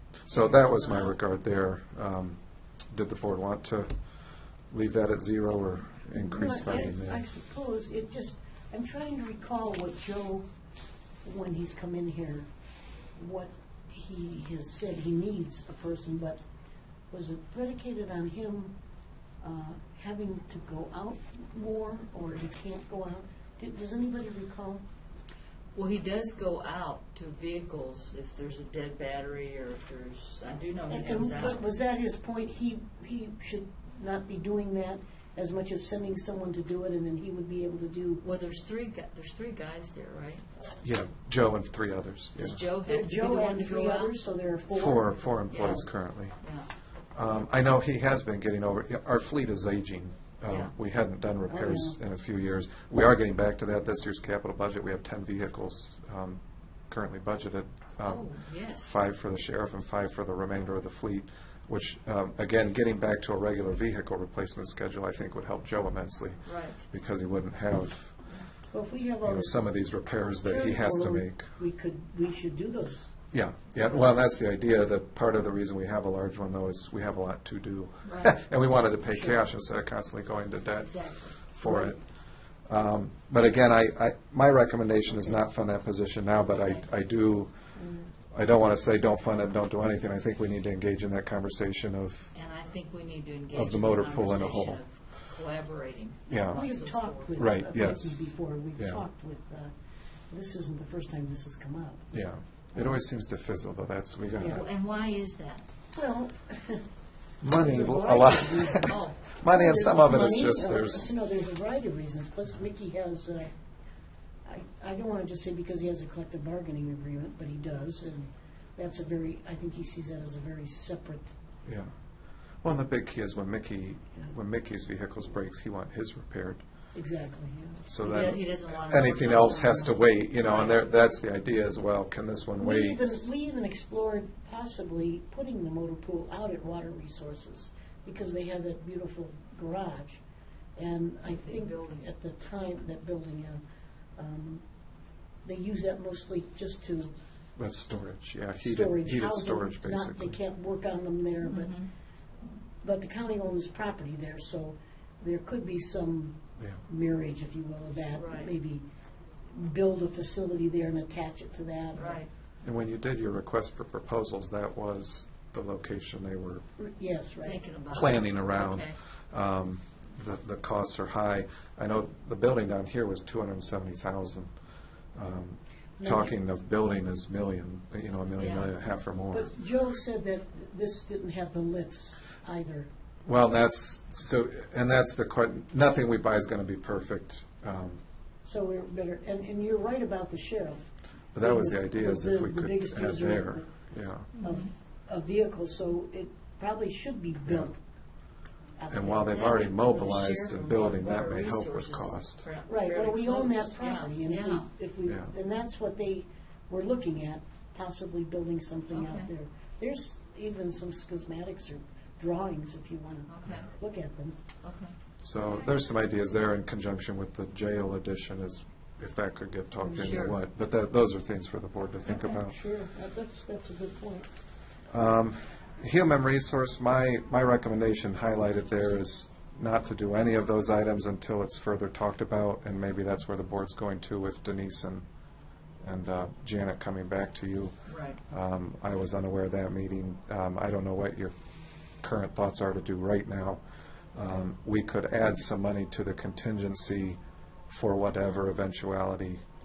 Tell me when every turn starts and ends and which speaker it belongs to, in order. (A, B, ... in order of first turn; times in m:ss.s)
0:00.2-0:03.9 A
0:00.3-0:01.1 B
0:04.7-0:07.2 A
0:06.1-0:10.5 C
0:11.2-0:12.5 C
0:13.2-0:16.4 C
0:17.1-0:18.7 C
0:19.4-0:24.8 C
0:25.7-0:31.6 B
0:30.9-0:38.2 C
0:38.2-0:40.4 B
0:40.8-0:42.6 A
0:42.4-0:44.1 B
0:42.8-0:45.8 C
0:44.7-0:46.4 A
0:45.5-0:45.8 B
0:46.4-0:46.7 B
0:47.1-0:58.3 A
0:50.4-0:50.7 B
0:51.5-0:52.0 C
0:58.0-0:59.0 B
0:58.8-1:08.2 A
1:06.4-1:06.8 B
1:08.7-1:09.6 C
1:09.2-1:11.5 A
1:10.4-1:13.1 C
1:13.3-1:22.0 A
1:18.0-1:18.4 B
1:19.1-1:19.4 C
1:20.8-1:21.3 B
1:21.6-1:22.0 C
1:22.6-1:27.5 A
1:26.6-1:26.8 B
1:27.8-1:28.1 C
1:28.3-1:32.3 A
1:32.3-1:37.4 B
1:33.5-1:34.8 A
1:36.3-1:36.6 A
1:36.5-1:39.7 C
1:37.3-1:38.2 A
1:38.8-1:39.0 A
1:40.3-1:42.1 C
1:42.1-1:44.6 A
1:44.4-1:45.6 B
1:45.9-1:46.8 C
1:47.4-1:51.1 A
1:47.5-1:53.5 C
1:48.8-1:49.2 B
1:54.4-2:01.3 C
2:02.6-2:06.6 A
2:06.9-2:07.9 C
2:07.9-2:13.2 A
2:08.0-2:11.0 B
2:12.6-2:20.2 C
2:20.8-2:23.6 C
2:21.2-2:22.1 B
2:24.2-2:24.6 C
2:25.4-2:27.1 C
2:27.6-2:30.4 A
2:28.6-2:31.7 C
2:31.4-2:31.9 B
2:32.8-2:38.8 C
2:36.6-2:36.8 A
2:38.1-2:38.5 B
2:39.5-2:42.2 C
2:41.9-2:42.3 B
2:42.6-2:46.6 A
2:46.8-2:47.6 C
2:47.4-2:49.0 B
2:47.9-2:54.5 A
2:55.1-2:59.5 A
2:56.0-2:56.3 C
2:58.4-2:58.7 B
2:59.3-3:02.9 C
3:03.2-3:08.0 A
3:08.4-3:10.8 C
3:11.3-3:14.4 A
3:11.4-3:17.8 C
3:14.4-3:14.7 B
3:18.8-3:21.0 C
3:18.9-3:22.4 A
3:19.3-3:19.7 B
3:20.7-3:24.7 B
3:22.7-3:34.4 C
3:25.0-3:25.3 A
3:28.9-3:29.3 B
3:33.3-3:33.6 B
3:34.6-3:34.9 B
3:35.2-3:42.6 A
3:39.8-3:40.2 C
3:39.9-3:40.4 B
3:42.0-3:42.4 B
3:42.3-3:44.3 C
3:44.9-3:55.0 A
3:55.8-3:57.7 A
3:57.9-3:58.2 B
3:58.3-4:01.3 A
4:02.0-4:03.6 A
4:04.1-4:09.4 A